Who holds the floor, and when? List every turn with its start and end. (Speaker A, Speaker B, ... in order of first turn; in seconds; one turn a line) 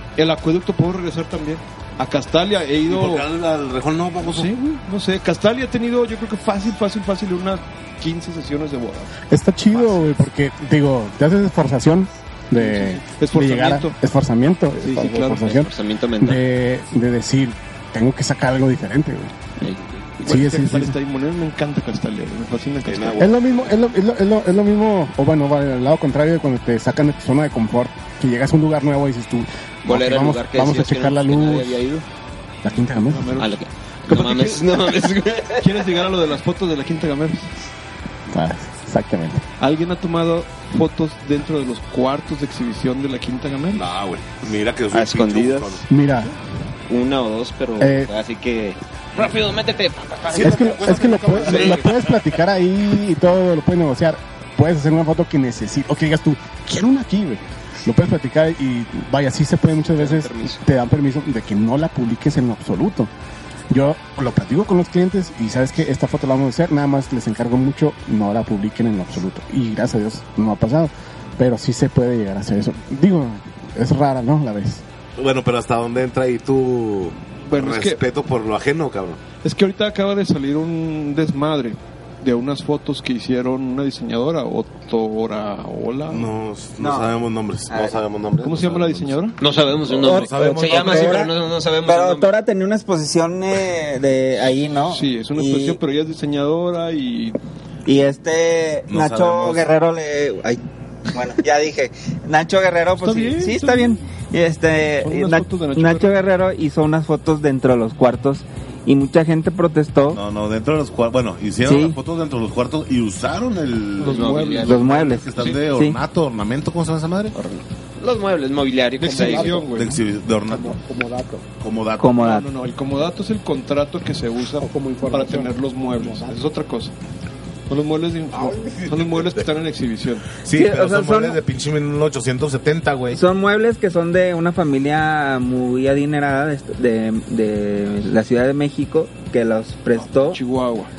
Speaker A: 0.2-3.2
Speaker B: 2.9-4.5
Speaker A: 4.2-9.1
Speaker C: 9.3-19.3
Speaker A: 9.7-10.2
Speaker A: 12.6-13.9
Speaker A: 14.8-15.5
Speaker D: 15.4-16.4
Speaker D: 19.6-20.1
Speaker A: 20.2-23.3
Speaker C: 20.2-20.9
Speaker B: 22.8-23.4
Speaker C: 23.2-31.9
Speaker D: 29.8-32.0
Speaker C: 32.6-33.3
Speaker A: 32.9-34.9
Speaker D: 33.4-35.6
Speaker A: 35.5-37.5
Speaker C: 38.3-39.4
Speaker A: 39.6-43.8
Speaker B: 43.7-45.8
Speaker D: 44.9-45.8
Speaker C: 45.9-46.3
Speaker D: 46.9-50.7
Speaker C: 47.8-48.1
Speaker B: 50.3-52.1
Speaker C: 50.4-63.1
Speaker D: 51.3-51.8
Speaker D: 59.9-60.6
Speaker C: 63.7-74.8
Speaker B: 75.2-79.2
Speaker A: 77.5-78.0
Speaker A: 79.4-86.3
Speaker B: 86.1-91.3
Speaker E: 86.8-87.1
Speaker E: 87.7-88.0
Speaker A: 88.4-89.4
Speaker D: 89.4-92.3
Speaker E: 90.0-95.8
Speaker A: 94.9-97.4
Speaker E: 97.8-110.2
Speaker B: 98.9-99.7
Speaker A: 103.0-104.0
Speaker A: 105.0-106.2
Speaker B: 110.1-117.3
Speaker E: 111.6-112.0
Speaker A: 114.0-114.8
Speaker D: 114.0-114.7
Speaker E: 114.7-116.0
Speaker D: 117.3-119.6
Speaker A: 119.0-120.0
Speaker C: 119.1-120.0
Speaker B: 119.7-120.8
Speaker C: 120.5-121.5
Speaker B: 121.6-122.4
Speaker E: 122.0-122.4
Speaker A: 122.2-126.9
Speaker C: 124.6-126.4
Speaker A: 127.7-130.3
Speaker B: 128.3-129.5
Speaker B: 130.4-133.2
Speaker E: 130.5-131.4
Speaker E: 133.1-140.4
Speaker A: 139.9-140.9